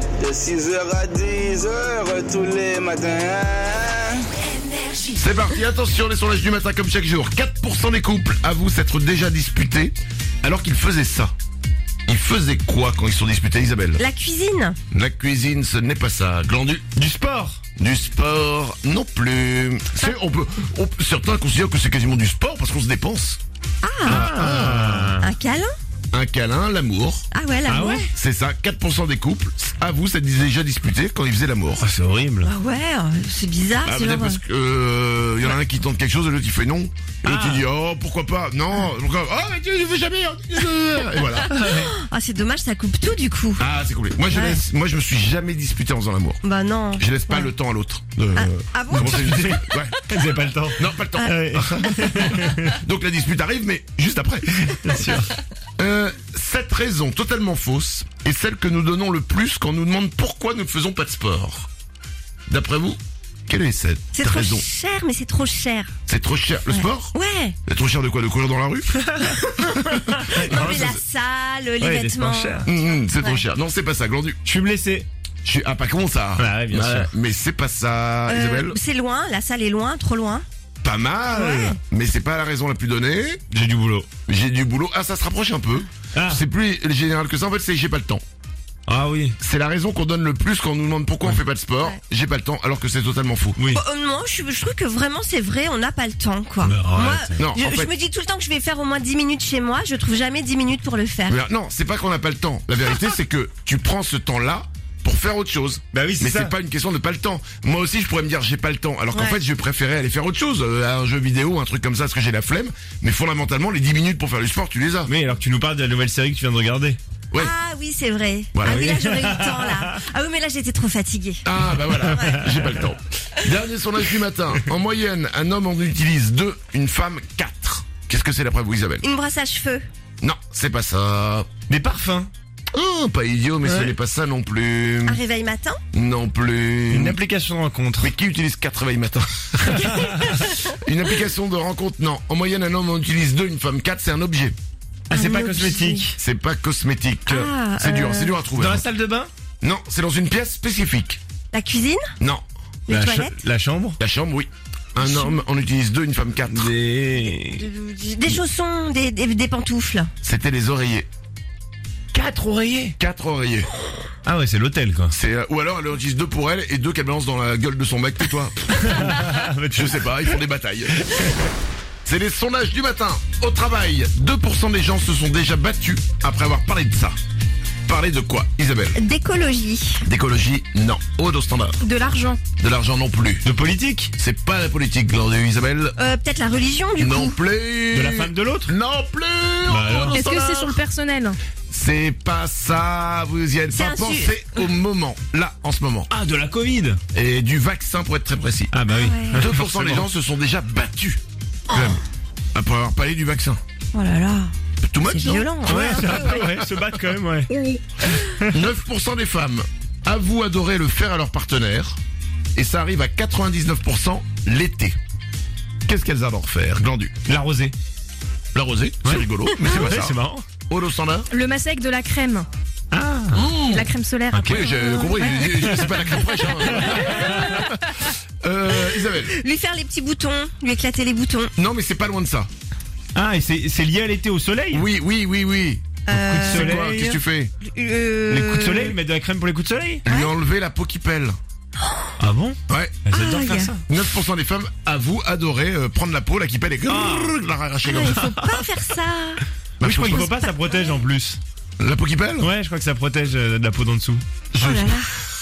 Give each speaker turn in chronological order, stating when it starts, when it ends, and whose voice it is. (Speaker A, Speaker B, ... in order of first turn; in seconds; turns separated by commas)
Speaker A: 0.2-4.2, Speaker B: 4.5-5.2, Speaker C: 5.1-11.3, Speaker C: 12.1-14.0, Speaker B: 14.0-14.8, Speaker C: 14.9-16.9, Speaker D: 16.9-17.6, Speaker C: 17.8-23.4, Speaker B: 23.8-24.3, Speaker C: 24.1-25.1, Speaker D: 24.1-25.3, Speaker B: 25.2-25.7, Speaker C: 26.1-27.3, Speaker B: 27.3-28.1, Speaker D: 27.6-28.1, Speaker C: 28.1-31.8, Speaker D: 31.8-32.5, Speaker B: 32.4-34.4, Speaker C: 33.8-41.5, Speaker D: 37.2-37.6, Speaker B: 41.4-43.6, Speaker D: 41.5-41.9, Speaker C: 43.6-46.4, Speaker B: 44.3-44.6, Speaker B: 46.4-47.5, Speaker C: 47.0-50.0, Speaker B: 48.3-49.6, Speaker D: 49.0-52.7, Speaker C: 50.8-55.0, Speaker B: 52.0-52.3, Speaker D: 54.6-55.3, Speaker C: 55.8-61.7, Speaker C: 62.5-64.6, Speaker B: 64.1-65.9, Speaker C: 66.1-67.1, Speaker B: 66.7-67.6, Speaker C: 67.7-71.0, Speaker B: 70.1-73.4, Speaker D: 70.1-70.9, Speaker D: 71.8-72.7, Speaker C: 72.6-74.4, Speaker D: 74.4-75.1, Speaker C: 75.4-78.8, Speaker D: 76.4-77.1, Speaker B: 78.3-80.4, Speaker C: 80.8-83.4, Speaker B: 81.3-81.8, Speaker D: 83.5-84.1, Speaker C: 84.3-88.2, Speaker D: 86.1-86.4, Speaker D: 88.9-89.3, Speaker C: 89.4-93.6, Speaker D: 93.6-93.8, Speaker B: 93.7-101.4, Speaker D: 96.6-97.4, Speaker C: 97.4-97.9, Speaker C: 101.3-115.1, Speaker D: 105.9-106.5, Speaker B: 109.1-109.4, Speaker D: 115.1-117.0, Speaker B: 117.3-121.4, Speaker C: 118.5-118.9, Speaker D: 118.7-119.9, Speaker C: 121.4-129.1, Speaker B: 122.0-122.7, Speaker B: 129.0-129.8, Speaker C: 130.2-131.5, Speaker D: 131.7-132.3, Speaker C: 132.7-135.2, Speaker D: 133.6-133.9, Speaker B: 135.0-135.8, Speaker C: 135.9-137.2, Speaker D: 136.9-138.1, Speaker C: 138.0-140.0, Speaker D: 139.7-140.2, Speaker C: 140.7-144.5, Speaker D: 145.1-146.2, Speaker B: 145.1-146.1, Speaker C: 146.2-148.8, Speaker B: 147.3-148.3, Speaker D: 148.6-149.3, Speaker C: 149.6-151.2, Speaker B: 151.5-152.1, Speaker B: 152.9-153.3, Speaker D: 152.9-154.0, Speaker C: 154.0-156.7, Speaker B: 155.0-155.4, Speaker D: 156.5-157.6, Speaker B: 157.5-160.1, Speaker C: 160.2-161.1, Speaker D: 162.1-162.9, Speaker C: 163.0-163.7, Speaker D: 164.2-165.1, Speaker C: 165.1-169.2, Speaker D: 168.8-170.1, Speaker C: 169.7-171.1, Speaker D: 171.1-171.4, Speaker C: 172.0-177.1, Speaker C: 177.8-179.0, Speaker B: 178.9-180.1, Speaker C: 180.0-181.8, Speaker E: 181.8-182.4, Speaker C: 182.6-183.4, Speaker D: 183.4-184.1, Speaker C: 184.2-185.9, Speaker B: 186.0-187.4, Speaker C: 187.0-190.8, Speaker D: 187.9-188.7, Speaker D: 189.7-190.2, Speaker E: 190.1-191.4, Speaker C: 191.7-196.1, Speaker B: 193.7-194.7, Speaker D: 196.1-197.0, Speaker C: 197.1-198.7, Speaker D: 198.7-200.1, Speaker B: 198.9-199.4, Speaker C: 199.3-202.0, Speaker B: 201.7-202.0, Speaker C: 202.5-203.6, Speaker B: 203.9-204.5, Speaker C: 204.8-205.6, Speaker B: 205.0-206.6, Speaker D: 205.7-207.5, Speaker D: 208.0-208.6, Speaker C: 208.5-212.0, Speaker C: 212.5-214.9, Speaker C: 215.8-217.1, Speaker D: 217.3-217.7, Speaker C: 218.5-221.3, Speaker D: 219.0-220.4, Speaker E: 221.3-222.4, Speaker D: 222.9-223.5, Speaker C: 223.3-223.9, Speaker E: 223.7-224.8, Speaker D: 224.3-224.6, Speaker C: 224.4-227.7, Speaker B: 224.7-225.6, Speaker D: 225.6-225.9, Speaker D: 226.6-227.4, Speaker B: 227.0-227.6, Speaker C: 228.4-229.3, Speaker B: 228.7-231.5, Speaker C: 231.6-232.5, Speaker D: 233.1-234.8, Speaker C: 234.7-237.5, Speaker B: 236.1-237.1, Speaker D: 236.1-237.1, Speaker B: 237.6-239.0, Speaker D: 238.3-240.0, Speaker C: 240.0-241.3, Speaker B: 240.1-240.3, Speaker B: 241.8-242.1, Speaker D: 242.2-243.8, Speaker C: 242.7-243.0, Speaker B: 243.1-243.8, Speaker C: 243.9-248.3, Speaker D: 246.9-247.3, Speaker B: 247.8-249.4, Speaker D: 248.2-248.6, Speaker C: 249.8-250.2, Speaker D: 249.8-251.4, Speaker B: 250.0-251.0, Speaker C: 251.8-252.5, Speaker D: 252.4-254.2, Speaker C: 254.5-255.0, Speaker B: 254.6-255.1